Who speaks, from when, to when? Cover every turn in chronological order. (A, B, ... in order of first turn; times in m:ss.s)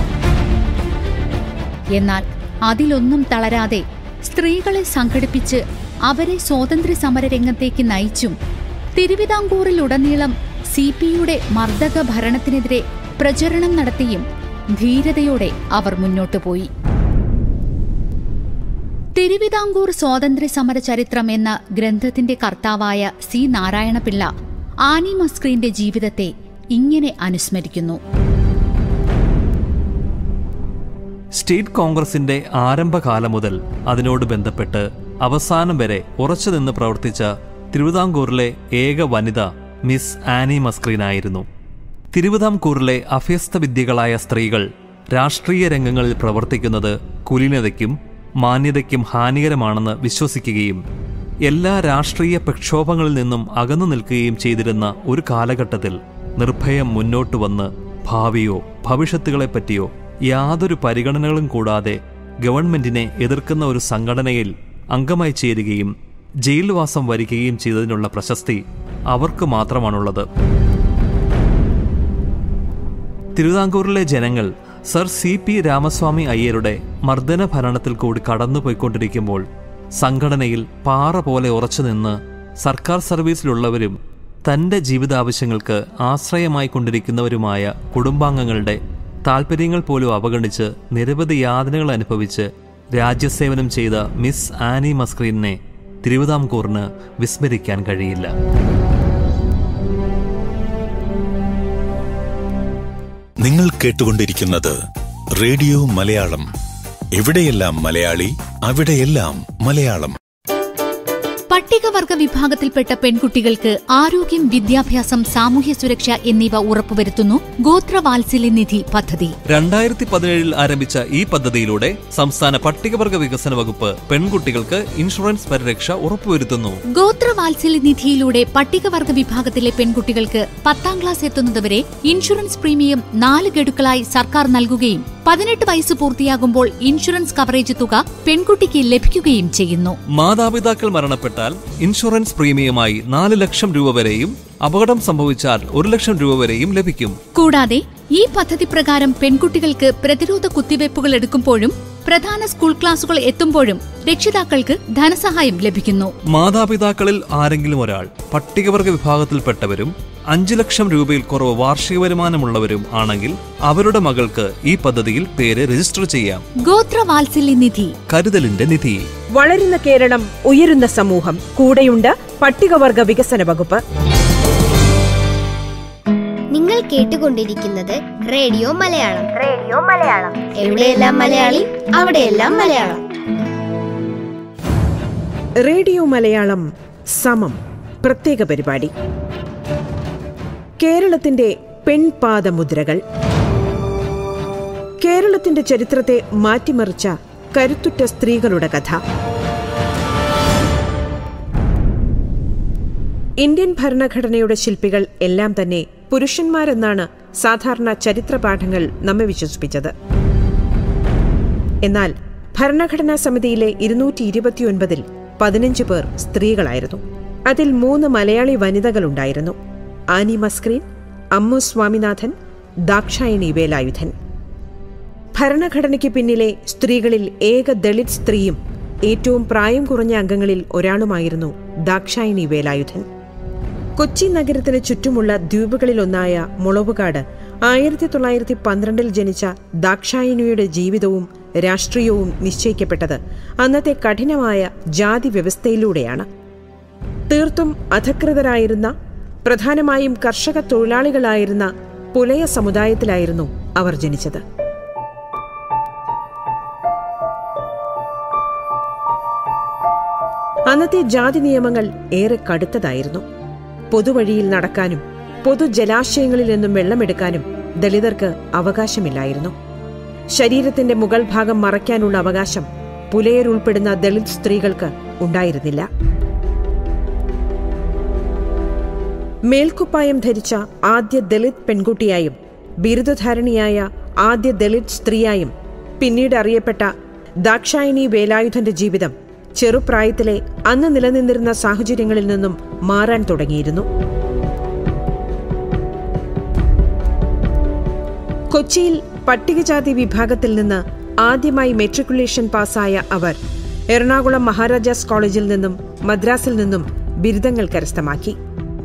0:02.0-0:08.4 A
0:09.0-0:16.7 A
0:19.2-0:24.3 A
0:24.9-0:28.0 A
0:31.3-0:41.5 B
0:42.1-0:50.8 B
0:51.4-1:05.9 B
1:06.4-1:10.3 B
1:13.4-1:19.5 B
1:20.0-1:38.4 B
1:43.4-1:44.8 C
1:45.4-1:46.5 C
1:47.1-1:50.2 C
1:51.5-1:59.4 A
1:59.5-2:06.8 B
2:06.9-2:20.0 A
2:20.1-2:27.2 B
2:27.3-2:36.2 A
2:36.3-2:46.4 B
2:46.6-2:48.0 A
2:48.1-2:49.1 B
2:49.3-2:53.8 D
2:56.5-3:03.0 E
3:05.6-3:08.9 D
3:10.8-3:13.0 D
3:15.0-3:19.0 D
3:23.4-3:29.9 D
3:31.8-3:39.6 D
3:40.1-3:42.4 D
3:42.9-3:44.1 D
3:45.3-3:53.1 D
3:54.0-4:06.3 D
4:07.3-4:08.9 D
4:09.5-4:14.4 D
4:20.7-4:23.2 D
4:23.9-4:29.5 D
4:30.4-4:35.9 D
4:39.5-4:46.9 D
4:47.4-4:53.9 D
4:58.5-5:03.4 D
5:03.9-5:08.4 D